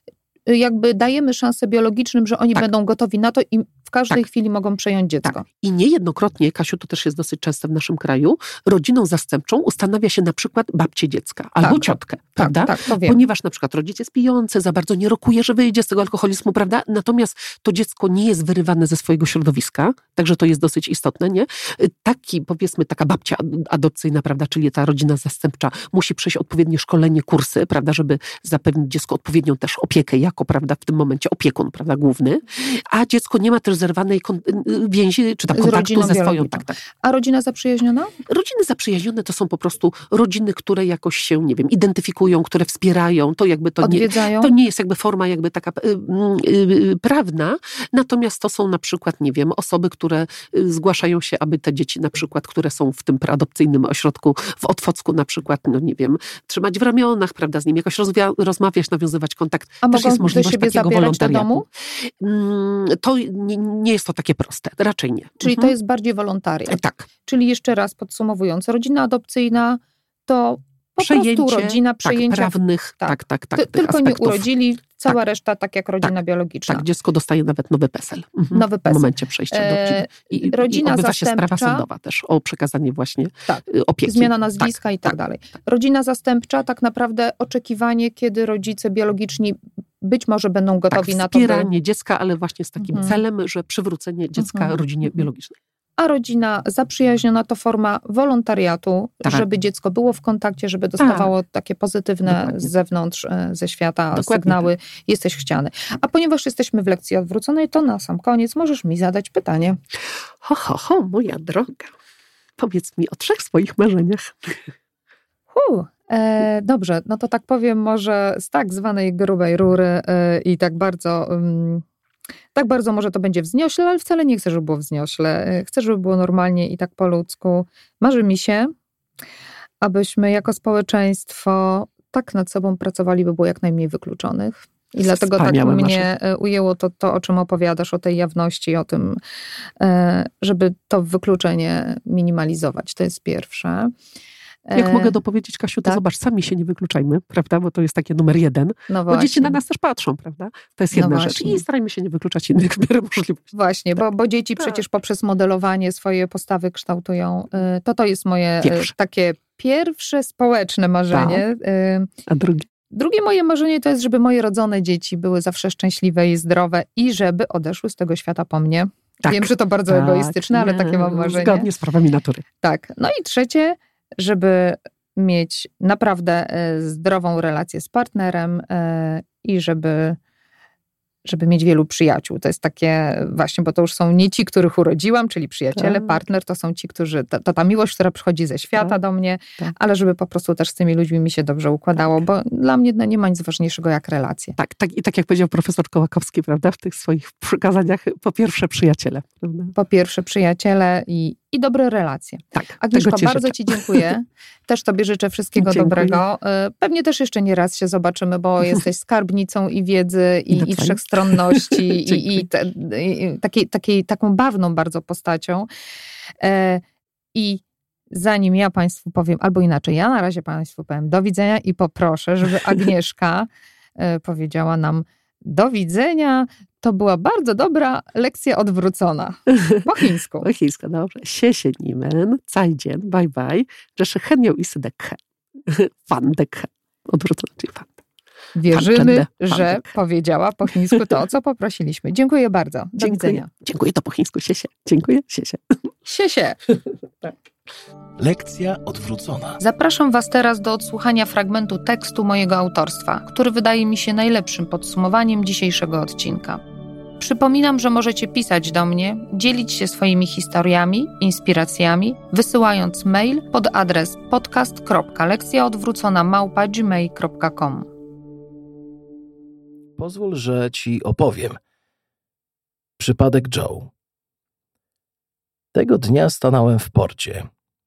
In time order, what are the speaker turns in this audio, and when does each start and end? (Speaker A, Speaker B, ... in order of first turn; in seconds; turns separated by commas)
Speaker A: 0.5-5.4, Speaker B: 5.3-36.8, Speaker A: 11.6-13.2, Speaker A: 35.5-38.1, Speaker B: 38.3-65.7, Speaker A: 43.8-44.5, Speaker A: 59.8-61.7, Speaker A: 65.4-76.8, Speaker B: 66.7-67.1, Speaker B: 71.0-74.5, Speaker B: 76.7-84.7, Speaker A: 78.5-81.8, Speaker A: 83.5-91.7, Speaker B: 90.9-95.5, Speaker A: 92.8-93.2, Speaker A: 94.4-95.2, Speaker A: 96.0-109.8, Speaker B: 101.0-101.3, Speaker B: 102.3-102.7, Speaker B: 104.1-104.7, Speaker B: 110.4-111.9, Speaker B: 112.6-114.6, Speaker A: 115.5-121.8, Speaker A: 122.5-128.7, Speaker A: 129.8-139.2, Speaker B: 135.2-136.1, Speaker A: 139.8-143.9, Speaker A: 144.7-145.2, Speaker B: 144.8-153.5, Speaker A: 148.9-149.6, Speaker A: 150.9-151.6, Speaker A: 153.5-162.1, Speaker B: 158.6-158.9, Speaker B: 161.1-161.4, Speaker B: 162.3-162.7, Speaker A: 162.9-171.7, Speaker B: 169.2-172.4, Speaker A: 172.6-180.2, Speaker A: 181.2-194.6, Speaker B: 185.8-186.2, Speaker B: 194.6-199.7, Speaker A: 199.8-215.7, Speaker B: 202.5-204.1, Speaker B: 205.6-206.2, Speaker B: 210.5-212.4, Speaker A: 216.4-216.8, Speaker A: 217.3-217.6, Speaker A: 218.1-230.5, Speaker B: 229.5-229.8, Speaker B: 230.4-238.0, Speaker A: 238.6-243.5, Speaker B: 238.7-239.9, Speaker B: 243.0-245.6, Speaker A: 246.1-246.6, Speaker C: 248.2-249.6, Speaker A: 249.6-256.6, Speaker A: 257.2-267.9, Speaker C: 270.0-271.6, Speaker C: 273.0-273.9, Speaker C: 275.7-277.5